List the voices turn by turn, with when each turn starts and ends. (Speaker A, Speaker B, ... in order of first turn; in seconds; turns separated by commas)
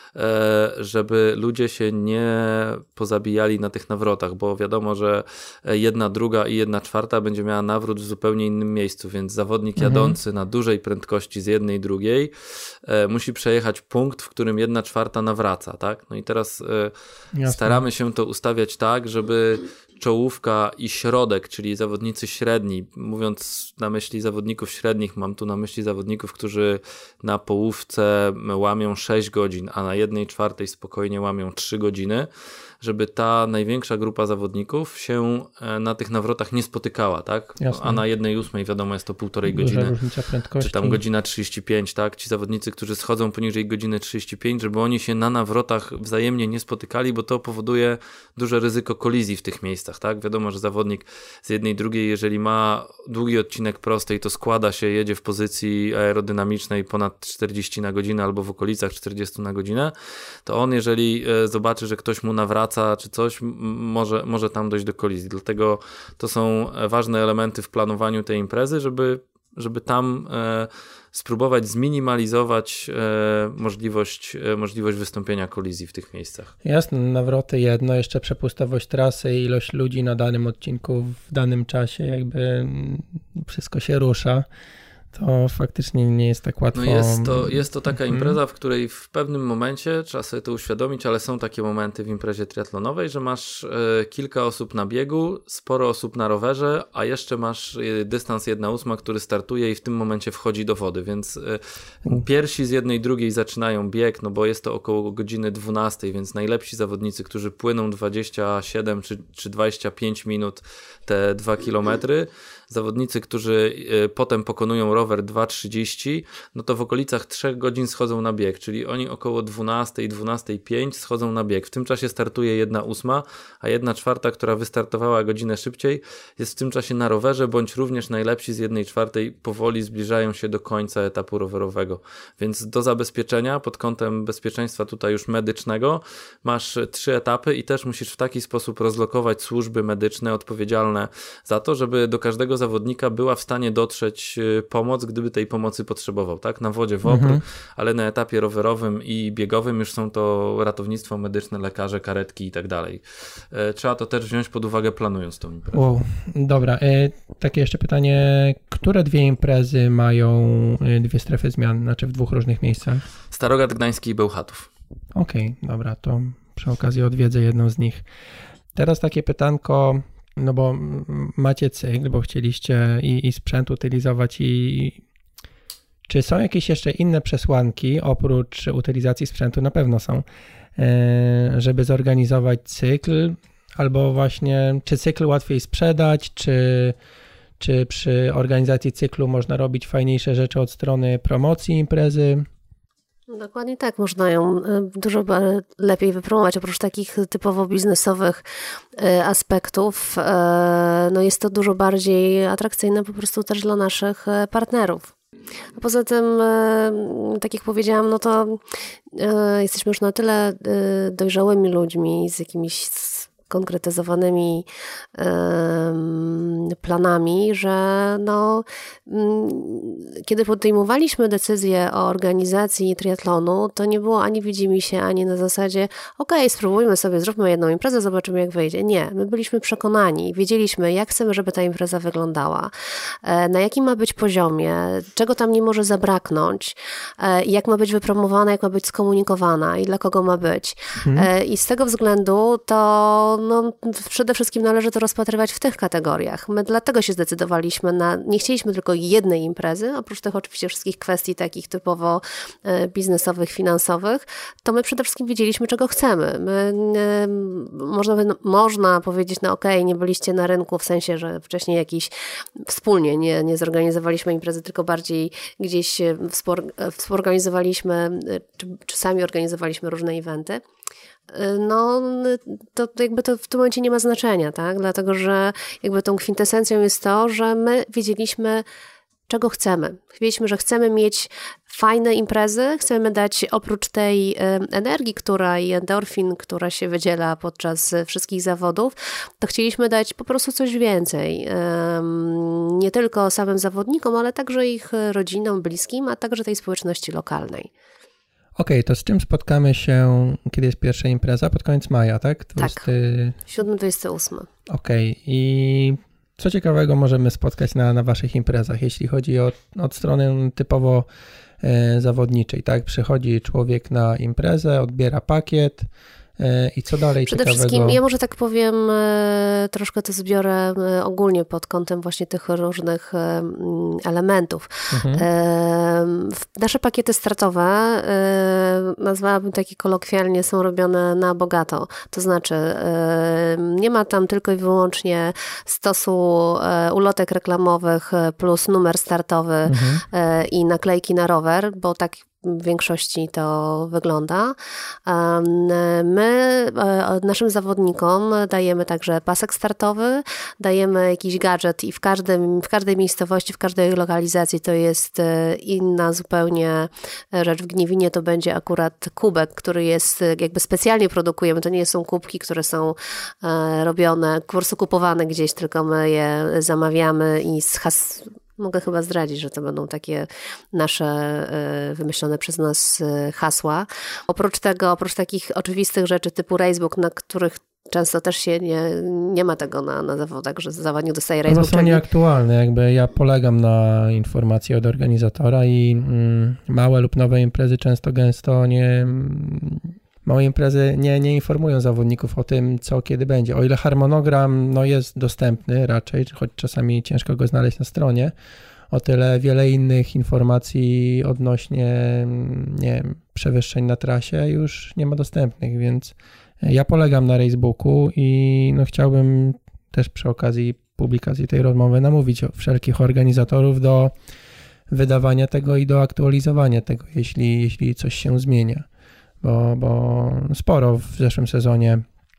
Speaker A: 0.1-16.9, Speaker B: 9.8-10.2, Speaker B: 17.4-17.8, Speaker A: 17.4-32.3, Speaker A: 32.8-40.0, Speaker B: 37.6-38.0, Speaker B: 39.5-41.0, Speaker A: 40.6-59.9, Speaker A: 60.5-76.5, Speaker B: 76.6-84.5, Speaker B: 85.1-88.4, Speaker A: 86.7-155.8, Speaker B: 147.1-147.4, Speaker B: 155.7-163.0, Speaker A: 163.3-164.7, Speaker B: 165.2-168.0, Speaker B: 168.8-175.0, Speaker B: 176.1-180.2, Speaker B: 180.8-187.0, Speaker B: 187.6-192.5, Speaker C: 193.3-198.4, Speaker C: 199.0-205.1, Speaker C: 205.8-208.6, Speaker C: 209.1-232.7, Speaker C: 233.2-270.6, Speaker B: 241.0-241.3, Speaker C: 271.3-278.6, Speaker C: 279.3-297.7, Speaker B: 298.6-303.4, Speaker C: 302.6-302.9, Speaker C: 303.5-304.5, Speaker B: 304.7-311.1, Speaker B: 311.6-318.0, Speaker C: 317.3-382.0, Speaker B: 324.9-325.3, Speaker B: 339.7-340.0, Speaker B: 381.5-398.3, Speaker B: 398.9-414.1, Speaker B: 414.9-418.9, Speaker B: 419.4-422.1